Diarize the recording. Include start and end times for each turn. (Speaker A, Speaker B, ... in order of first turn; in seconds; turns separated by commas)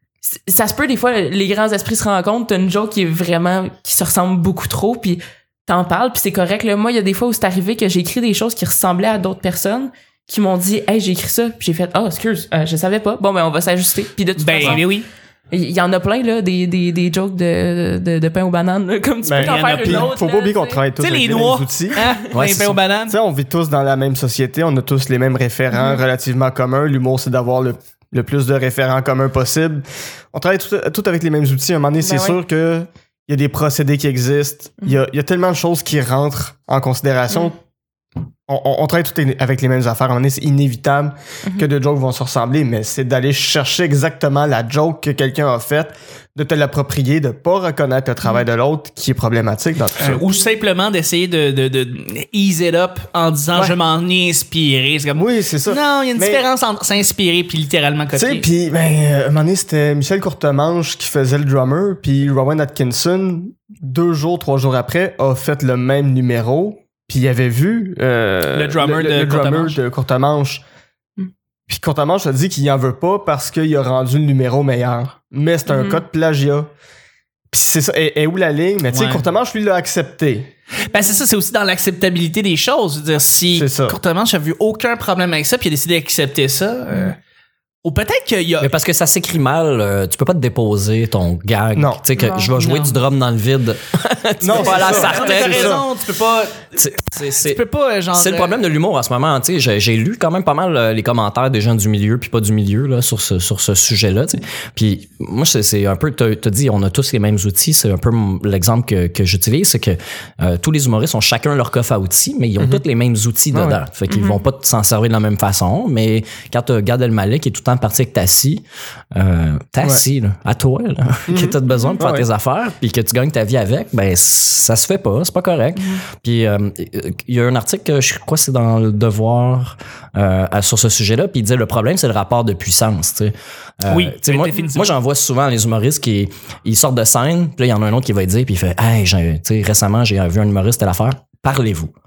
Speaker A: 0.2-14.8, Speaker B: 14.4-15.1, Speaker A: 15.5-20.9, Speaker C: 19.2-22.0, Speaker B: 19.4-20.1, Speaker B: 20.9-23.2, Speaker D: 22.3-22.8, Speaker C: 23.1-37.6, Speaker A: 25.8-26.0, Speaker A: 32.0-32.4, Speaker C: 38.5-50.2, Speaker A: 41.4-41.7, Speaker B: 50.0-58.5, Speaker C: 55.1-56.5, Speaker C: 58.1-70.6, Speaker B: 68.5-69.8, Speaker C: 71.7-76.7, Speaker A: 75.7-76.0, Speaker C: 77.5-80.5, Speaker B: 78.9-79.2, Speaker B: 80.8-87.2, Speaker C: 83.5-84.0, Speaker B: 87.8-88.7, Speaker D: 88.6-95.9, Speaker C: 91.7-92.1, Speaker A: 92.2-92.5, Speaker B: 92.5-93.0, Speaker C: 94.4-95.8, Speaker B: 94.6-98.6, Speaker D: 96.8-97.6, Speaker D: 98.1-118.6, Speaker C: 112.6-112.8, Speaker C: 113.5-113.8, Speaker A: 114.1-114.4, Speaker D: 119.1-141.9, Speaker C: 121.3-122.3, Speaker B: 133.9-134.9